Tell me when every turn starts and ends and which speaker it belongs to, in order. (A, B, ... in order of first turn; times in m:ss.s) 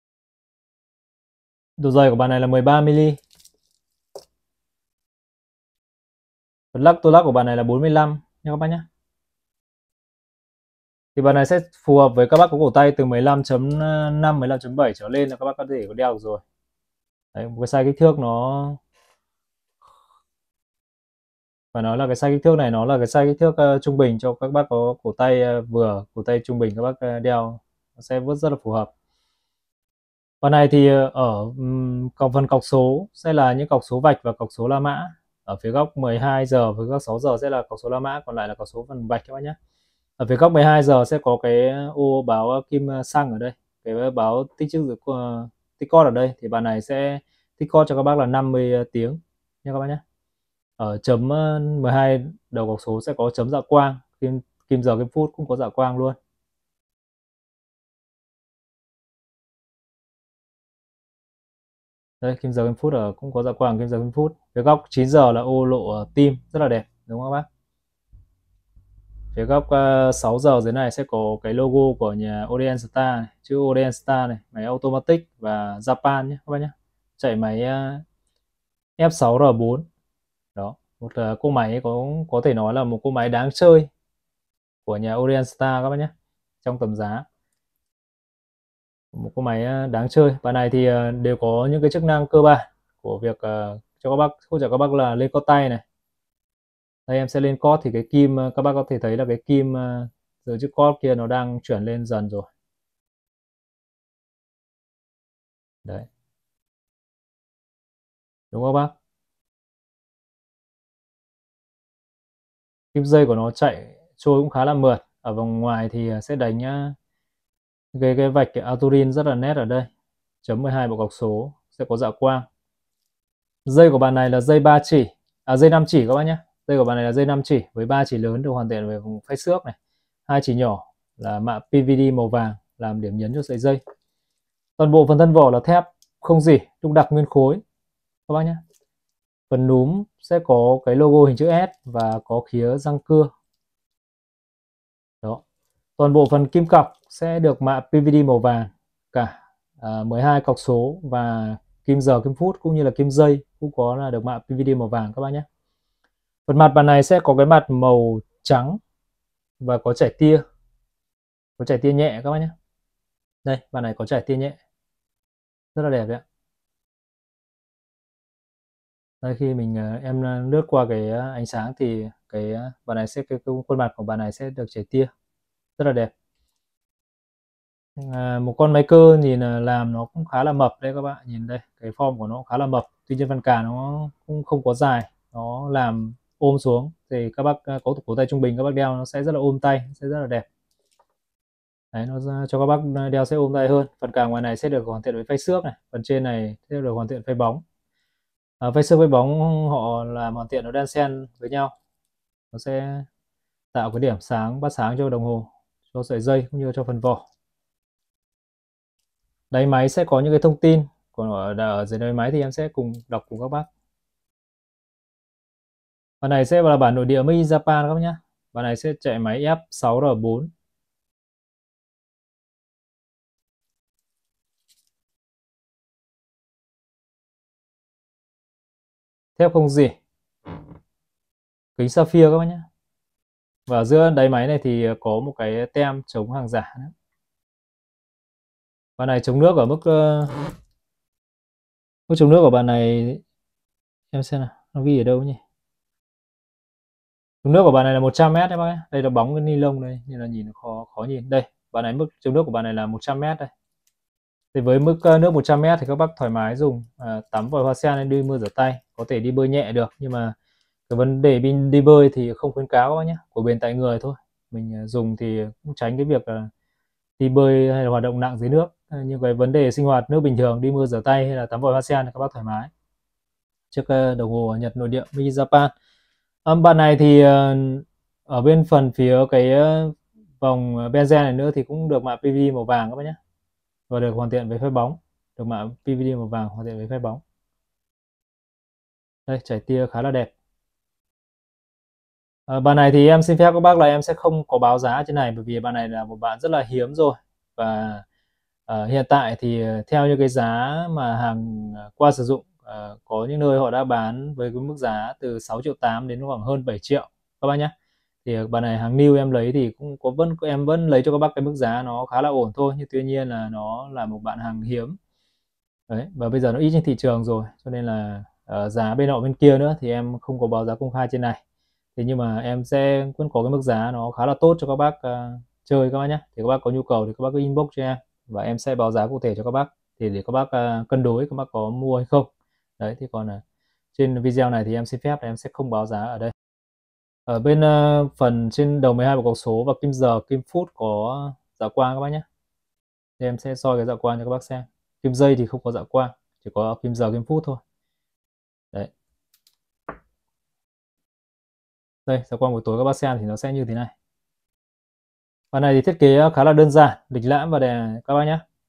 0:01.8-0:03.2 A
0:06.7-0:08.8 A
0:11.2-0:16.4 A
0:17.3-0:18.8 A
0:21.7-0:28.9 A
0:30.4-0:39.6 A
0:40.2-0:50.0 A
0:50.8-0:56.2 A
1:02.2-1:07.4 A
1:09.3-1:18.0 A
1:19.0-1:19.8 A
1:20.5-1:23.9 A
1:24.8-1:27.2 A
1:29.1-1:35.8 A
1:37.1-1:42.5 A
1:48.5-1:48.9 A
1:52.9-1:57.0 A
1:57.9-1:59.9 A
2:00.4-2:02.4 A
2:03.6-2:09.8 A
2:10.3-2:13.8 A
2:14.8-2:17.6 A
2:18.3-2:18.6 A
2:19.5-2:23.3 A
2:26.0-2:35.4 A
2:36.5-2:38.8 A
2:39.6-2:40.4 A
2:41.6-2:42.5 A
2:43.4-2:44.6 A
2:45.7-2:46.2 A
2:49.2-2:55.1 A
2:55.8-2:56.1 A
2:58.0-3:10.4 A
3:11.9-3:17.6 A
3:18.6-3:21.7 A
3:22.5-3:23.0 A
3:23.7-3:27.2 A
3:29.5-3:33.7 A
3:36.2-3:40.5 A
3:49.4-3:50.0 A
3:51.8-3:52.6 A
3:53.7-3:56.9 A
3:59.0-4:00.3 A
4:02.1-4:03.2 A
4:04.1-4:05.4 A
4:07.4-4:13.5 A
4:14.5-4:20.3 A
4:20.9-4:26.5 A
4:27.2-4:32.7 A
4:33.7-4:35.7 A
4:36.4-4:43.2 A
4:43.9-4:47.2 A
4:49.3-4:50.3 A
4:52.5-4:58.0 A
4:58.7-5:07.7 A
5:08.2-5:15.0 A
5:15.9-5:21.4 A
5:22.0-5:33.4 A
5:33.9-5:36.3 A
5:37.3-5:42.2 A
5:43.2-5:47.6 A
5:52.0-5:53.9 A
5:55.5-5:58.4 A